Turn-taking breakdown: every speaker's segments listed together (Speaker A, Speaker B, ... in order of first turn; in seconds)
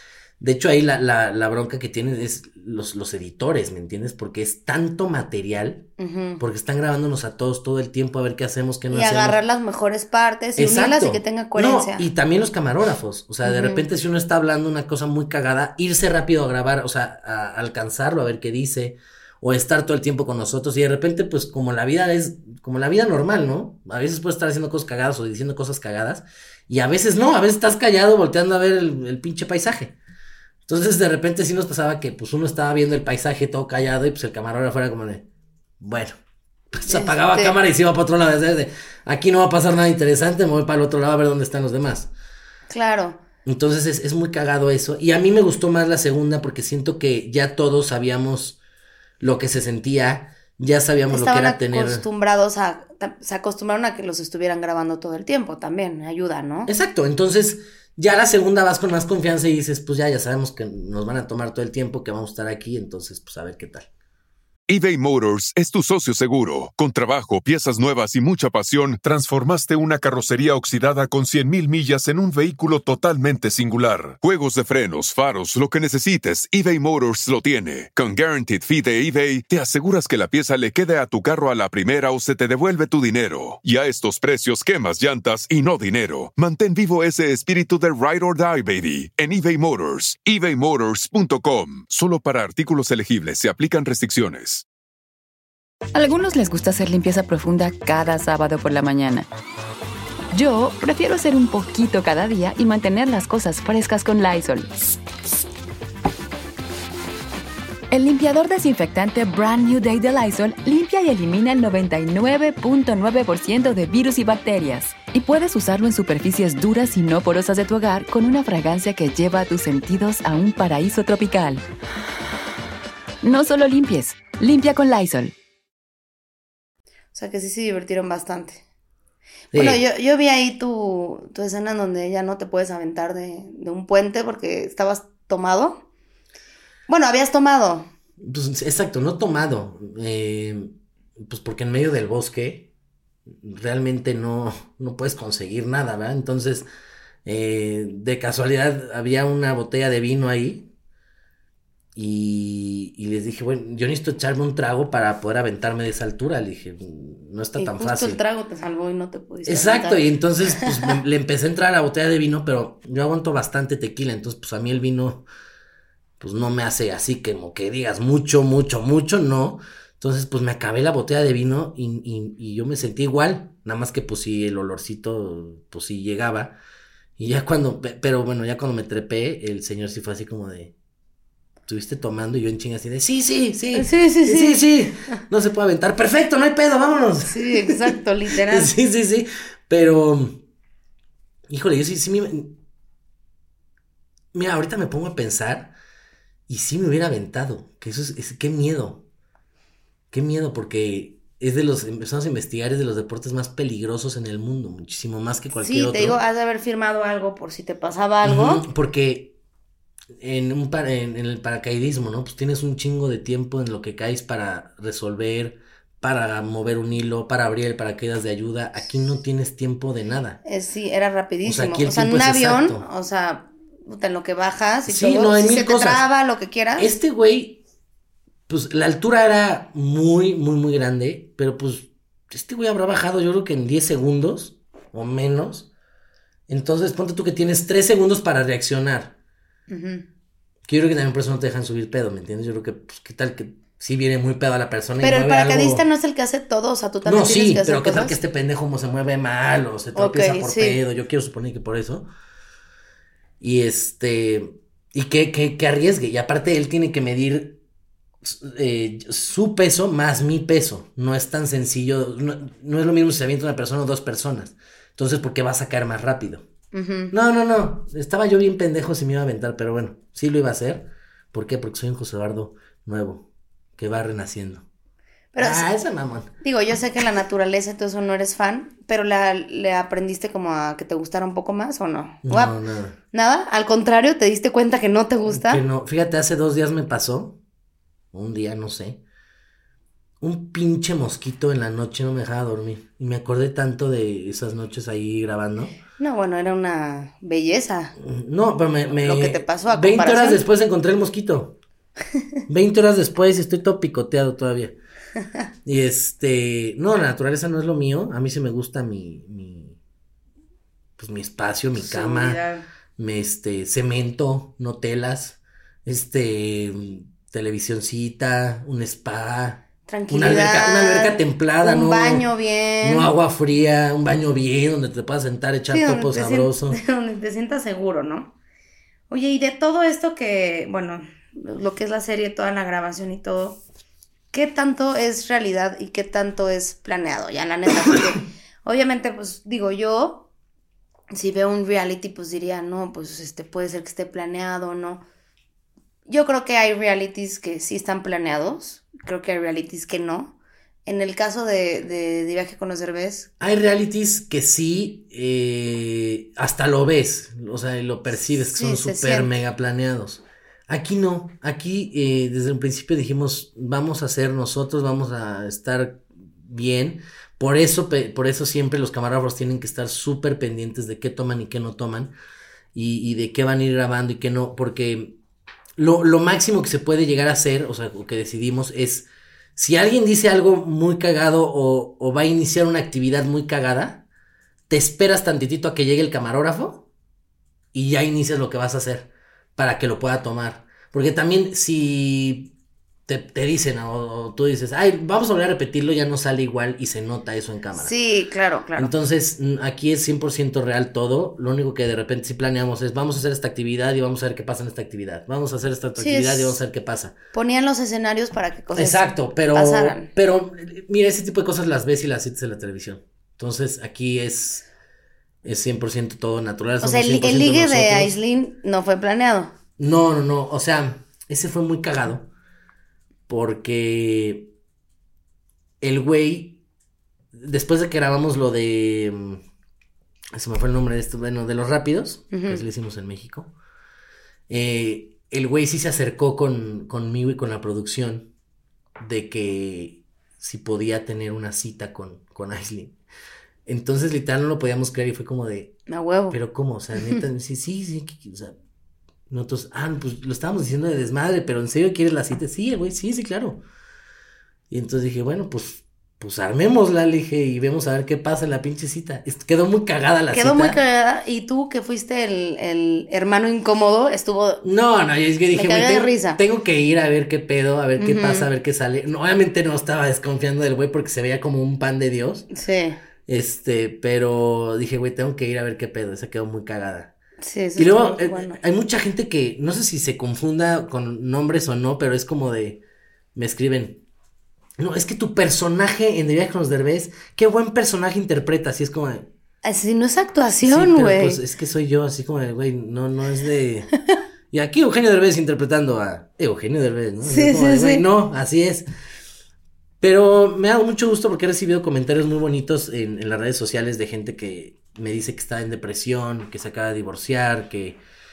Speaker A: 0.4-5.8, 6.4-9.4, 10.6-29.9, 30.6-35.2, 35.8-36.1, 36.7-42.1, 43.5-48.6, 49.2-52.0, 56.7-63.9, 129.5-129.8, 138.2-142.7, 143.3-146.7, 147.2-150.7, 151.9-158.2, 159.4-165.2, 166.2-176.6, 177.2-180.7, 181.7-190.4, 191.5-192.6, 194.3-195.7, 196.5-199.0, 200.1-206.2, 208.2-209.3, 210.2-220.4, 221.4-222.8, 224.8-226.1, 226.8-227.6, 228.5-235.7, 236.5-239.2, 240.7-245.8, 247.0-252.1, 253.4-257.6, 258.2-266.4, 267.1-273.2, 273.8-274.6, 275.4-276.3, 282.2-282.9, 285.2-287.4, 288.1-289.0, 290.2-295.7, 298.0-301.6, 302.5-304.7, 305.6-309.8, 311.0-312.4, 313.0-322.3, 322.8-326.8, 353.4-372.1, 372.7-375.1, 375.8-384.0, 384.7-386.9, 387.7-392.5, 393.1-397.9, 398.8-407.1, 408.7-414.7, 415.4-418.1, 419.8-422.3, 423.3-424.5, 425.8-426.6, 427.3-429.4, 430.3-433.5, 434.5-438.3, 439.0-442.9, 443.6-445.8, 446.3-448.5, 449.3-453.6, 454.7-460.8, 464.6-472.4, 473.2-477.1, 477.8-482.8, 483.3-484.0, 484.8-489.3, 490.6-493.9, 494.5-498.8, 500.0-508.0
Speaker B: 6.0-6.4, 8.9-12.1, 13.4-13.8, 36.8-37.5, 42.7-43.2, 51.1-56.7, 127.1-128.6, 129.5-135.8, 136.9-137.9, 157.6-161.0, 183.7-184.7, 187.2-188.7, 205.5-208.6, 220.4-226.9, 239.7-240.0, 245.0-248.2, 249.9-250.8, 266.7-267.1, 275.3-275.7, 276.4-282.6, 283.1-285.6, 296.0-298.0, 299.0-300.4, 311.8-312.6, 319.9-323.1, 325.7-328.3, 329.1-333.6, 334.3-340.3, 341.1-345.0, 346.1-353.3, 358.4-359.3, 397.8-398.9, 406.0-406.6, 407.3-410.1, 416.8-419.5, 432.3-432.6, 445.9-446.4, 460.3-464.6, 465.5-466.4, 468.0-468.5, 472.5-473.0, 477.4-478.6, 489.6-491.4, 497.2-498.0
Speaker C: 64.7-94.6
Speaker D: 95.9-99.3, 100.3-104.7, 107.9-121.6, 123.2-125.3